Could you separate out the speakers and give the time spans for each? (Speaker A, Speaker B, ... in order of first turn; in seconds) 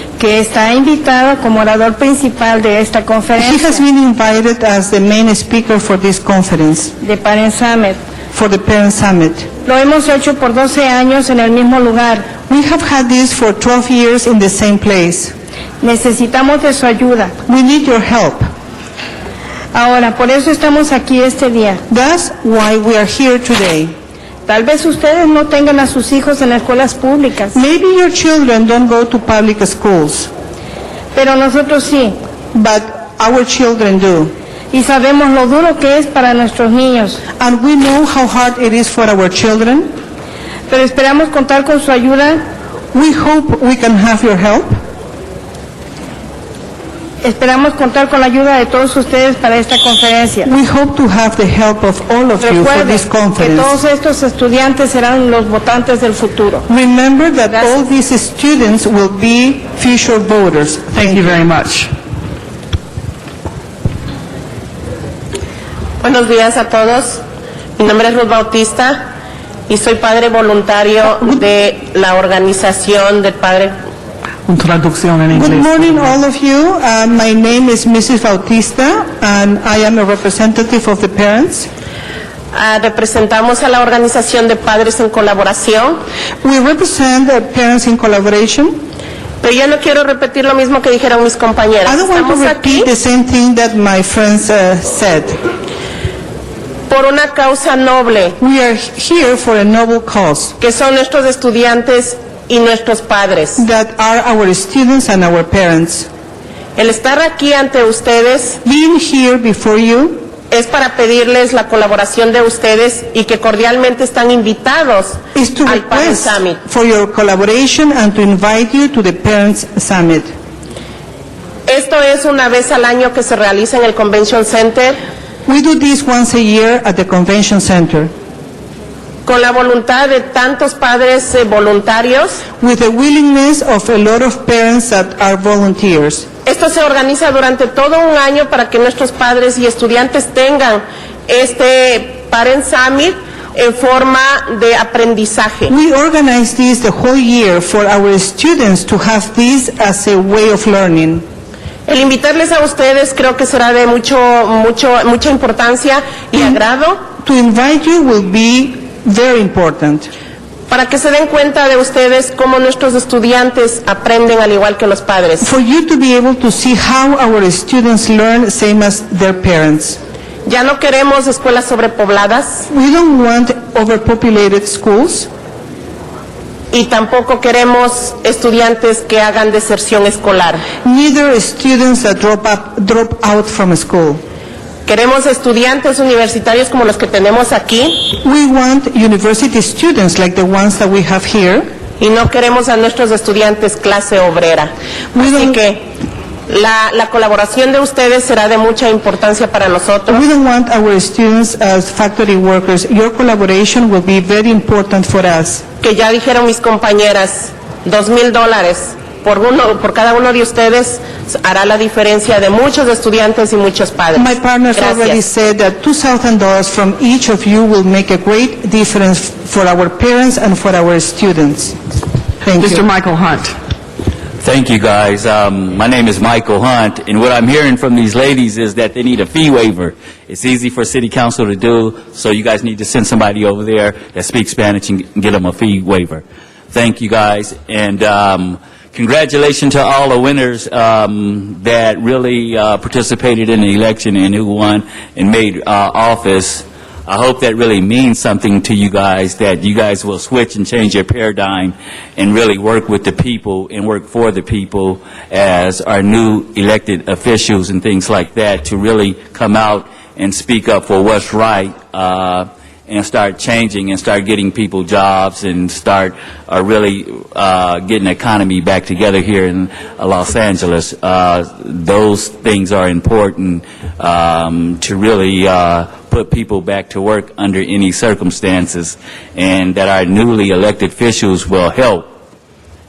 Speaker A: 0.2-3.8, 7.0-8.0, 9.7-12.3, 15.8-17.3, 19.7-21.8, 24.5-27.6, 31.1-32.2, 34.7-37.2, 40.7-42.4, 47.2-50.5, 52.4-56.7
Speaker B: 3.4-6.9, 8.3-9.5, 12.5-15.3, 17.5-18.4, 21.9-23.9, 27.5-30.3, 32.5-34.3, 37.4-39.9, 42.9-44.7, 50.4-53.8, 56.7-61.3, 75.3-81.7, 86.4-88.8, 91.8-95.4, 98.4-100.5, 103.6-106.1, 108.6-110.3, 115.3-120.3, 125.5-128.1, 132.6-136.3, 145.7-151.2, 157.2-160.1, 165.4-170.0, 172.7-175.3, 180.8-184.2, 188.2-191.7, 195.1-195.6, 200.1-205.7, 214.2-221.8, 222.4-222.8
Speaker C: 60.9-61.9, 74.5-76.0, 222.6-223.5
Speaker D: 66.0-67.2, 67.8-69.1, 69.7-73.7, 82.5-86.0, 89.4-92.9, 96.9-98.4, 100.6-103.6, 106.8-108.6, 110.5-116.6, 121.7-125.0, 129.3-132.4, 136.5-145.7, 151.9-157.0, 160.7-165.5, 170.5-172.7, 176.7-180.6, 184.9-188.0, 192.0-195.9, 196.5-200.2, 205.8-215.2
Speaker E: 224.4-282.1